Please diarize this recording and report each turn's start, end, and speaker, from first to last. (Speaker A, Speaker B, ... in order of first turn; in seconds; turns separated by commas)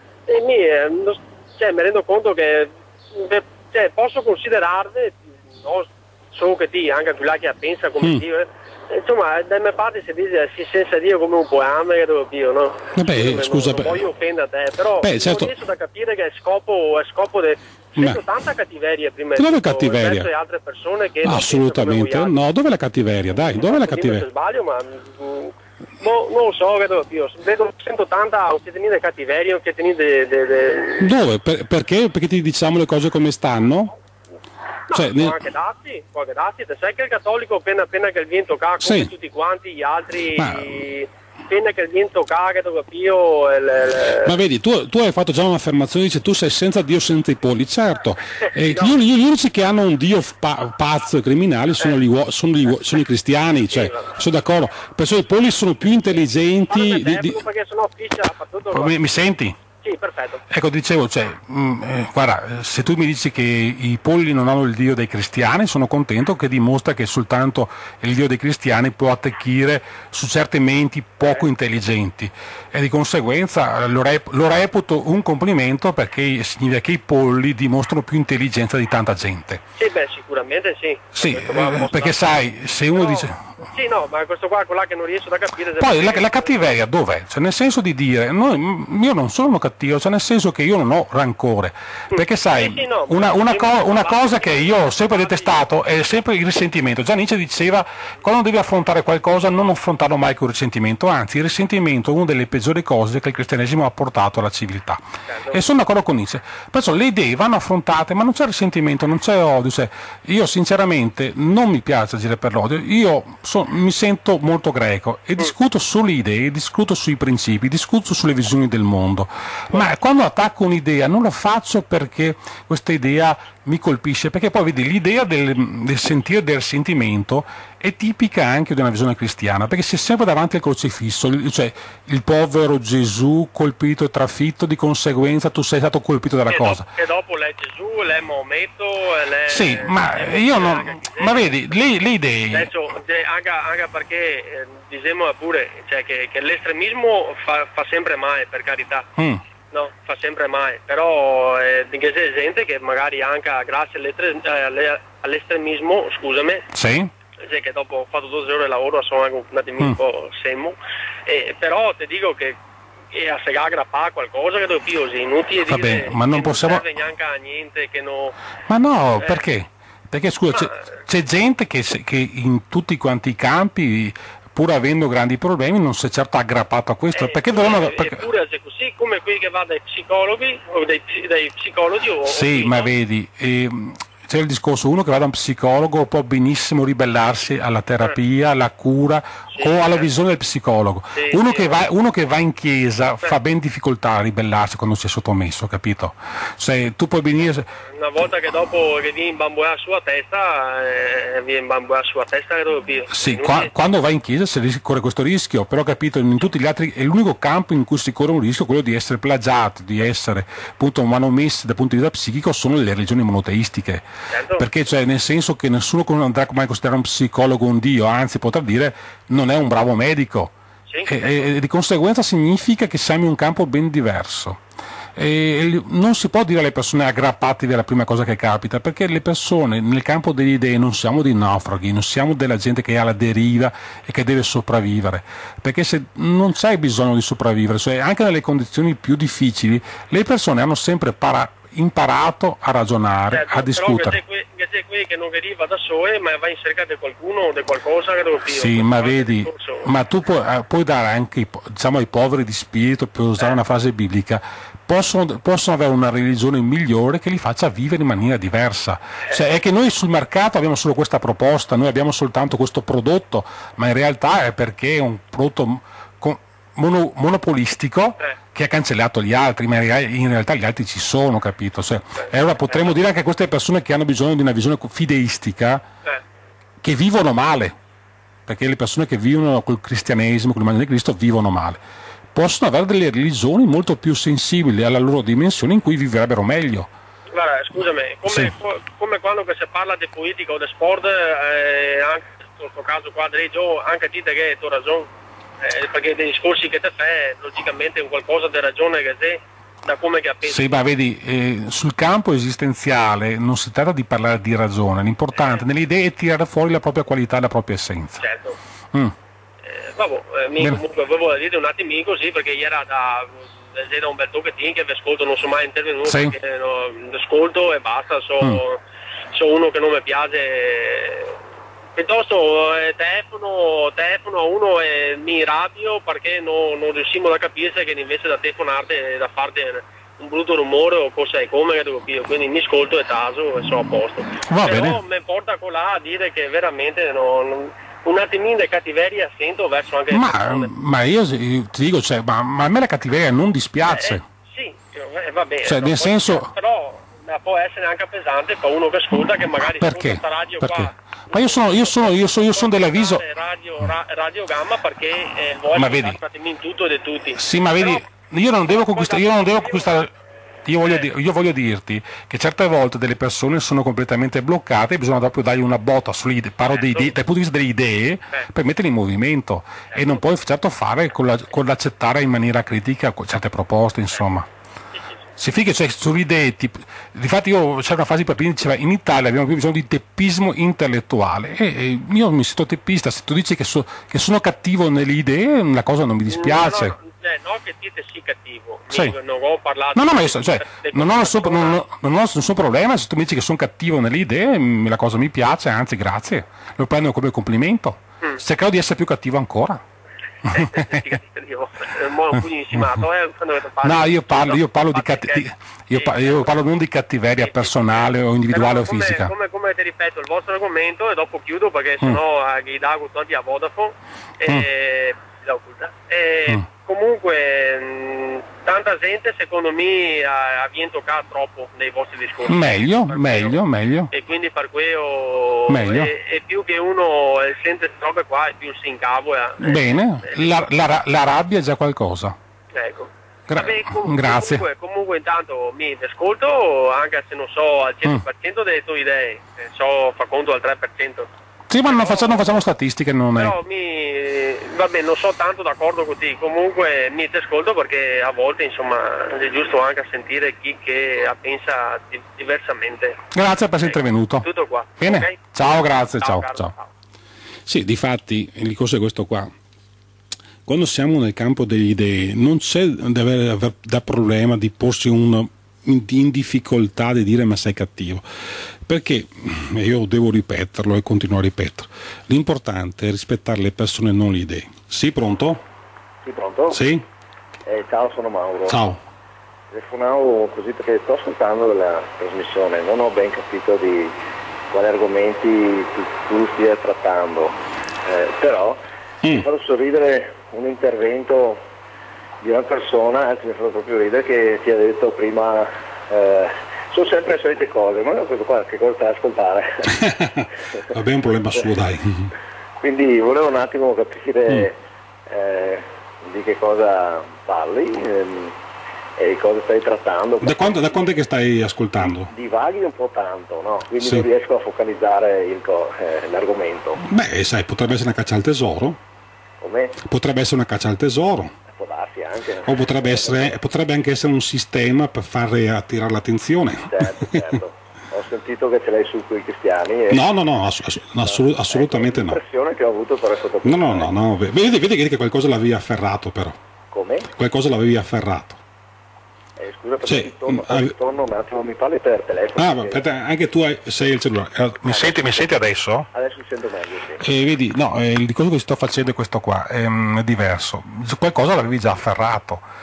Speaker A: 0.3-22.3, Speaker B: 12.9-14.0, Speaker B: 15.0-15.5, Speaker B: 19.3-20.3, Speaker B: 21.2-24.3, Speaker A: 23.4-31.1, Speaker B: 31.0-33.9, Speaker A: 34.9-44.4, Speaker B: 34.9-35.4, Speaker B: 38.8-39.1, Speaker B: 40.3-40.8, Speaker B: 44.2-57.4, Speaker A: 48.5-48.9, Speaker A: 53.7-54.1, Speaker A: 56.7-58.9, Speaker B: 58.7-59.6, Speaker A: 59.8-60.4, Speaker B: 60.5-79.6, Speaker A: 79.8-82.3, Speaker B: 81.1-83.4, Speaker A: 82.9-86.8, Speaker B: 85.8-136.9, Speaker A: 92.1-95.5, Speaker A: 105.3-105.6, Speaker A: 136.5-141.5, Speaker B: 139.5-142.7, Speaker A: 142.5-149.1, Speaker B: 149.2-149.4, Speaker A: 149.7-156.7, Speaker B: 156.7-157.1, Speaker A: 157.4-162.6, Speaker A: 163.1-168.3, Speaker B: 165.6-166.8, Speaker B: 168.7-178.2, Speaker A: 177.1-182.9, Speaker B: 182.2-197.7, Speaker A: 189.5-190.1, Speaker A: 191.1-191.7, Speaker A: 197.8-203.7, Speaker B: 203.1-214.0, Speaker A: 214.3-214.6, Speaker B: 214.5-220.5, Speaker A: 220.9-221.4, Speaker B: 221.0-224.6, Speaker B: 225.2-244.2, Speaker A: 243.3-249.9, Speaker B: 248.5-275.9, Speaker B: 276.8-277.7, Speaker B: 278.5-281.8, Speaker B: 282.3-286.9, Speaker A: 287.3-295.1, Speaker B: 288.2-288.5, Speaker A: 295.6-300.8, Speaker B: 300.4-308.2, Speaker A: 305.3-305.6, Speaker A: 308.2-308.6, Speaker A: 309.7-318.8, Speaker B: 316.0-316.4, Speaker A: 319.3-321.4, Speaker A: 321.9-340.7, Speaker B: 334.5-335.0, Speaker B: 340.1-344.2, Speaker A: 343.9-358.0, Speaker B: 345.6-346.5, Speaker B: 349.6-353.2, Speaker B: 355.7-356.2, Speaker B: 357.3-360.1, Speaker A: 358.7-360.1, Speaker B: 360.6-374.5, Speaker A: 366.7-367.1, Speaker A: 369.9-370.2, Speaker B: 375.4-387.0, Speaker A: 386.3-391.8, Speaker B: 388.9-389.2, Speaker B: 389.9-399.8, Speaker B: 400.4-401.1, Speaker A: 400.5-406.5, Speaker B: 402.4-402.8, Speaker B: 403.8-409.3, Speaker A: 407.4-423.6, Speaker B: 422.4-424.1, Speaker A: 424.1-430.6, Speaker B: 425.7-426.1, Speaker B: 429.6-432.4, Speaker A: 432.7-441.3, Speaker B: 433.5-434.6, Speaker B: 441.7-443.6, Speaker A: 441.9-442.4, Speaker A: 443.3-453.2, Speaker B: 453.3-454.5, Speaker A: 453.8-456.9, Speaker B: 455.0-456.7, Speaker B: 457.6-459.5, Speaker B: 460.6-468.2, Speaker B: 468.9-475.6, Speaker C: 476.2-476.8, Speaker B: 476.7-477.1, Speaker C: 477.6-478.8, Speaker B: 478.7-479.0, Speaker C: 479.7-484.2, Speaker C: 484.7-491.6, Speaker C: 492.4-500.0, Speaker B: 499.9-502.3, Speaker C: 502.8-508.6, Speaker C: 509.2-511.0, Speaker B: 510.4-512.3, Speaker C: 512.0-517.0, Speaker B: 514.0-514.2, Speaker B: 517.0-519.0, Speaker C: 519.6-520.0, Speaker B: 520.0-521.5, Speaker C: 521.7-523.5, Speaker B: 522.6-527.4, Speaker C: 526.8-530.2, Speaker B: 530.1-532.4, Speaker C: 531.2-534.1, Speaker B: 533.6-536.6, Speaker C: 536.9-537.3, Speaker B: 537.4-538.6, Speaker C: 539.6-543.0, Speaker B: 540.0-540.9, Speaker B: 542.5-546.1, Speaker C: 544.8-545.6, Speaker C: 546.1-547.2, Speaker B: 547.2-552.6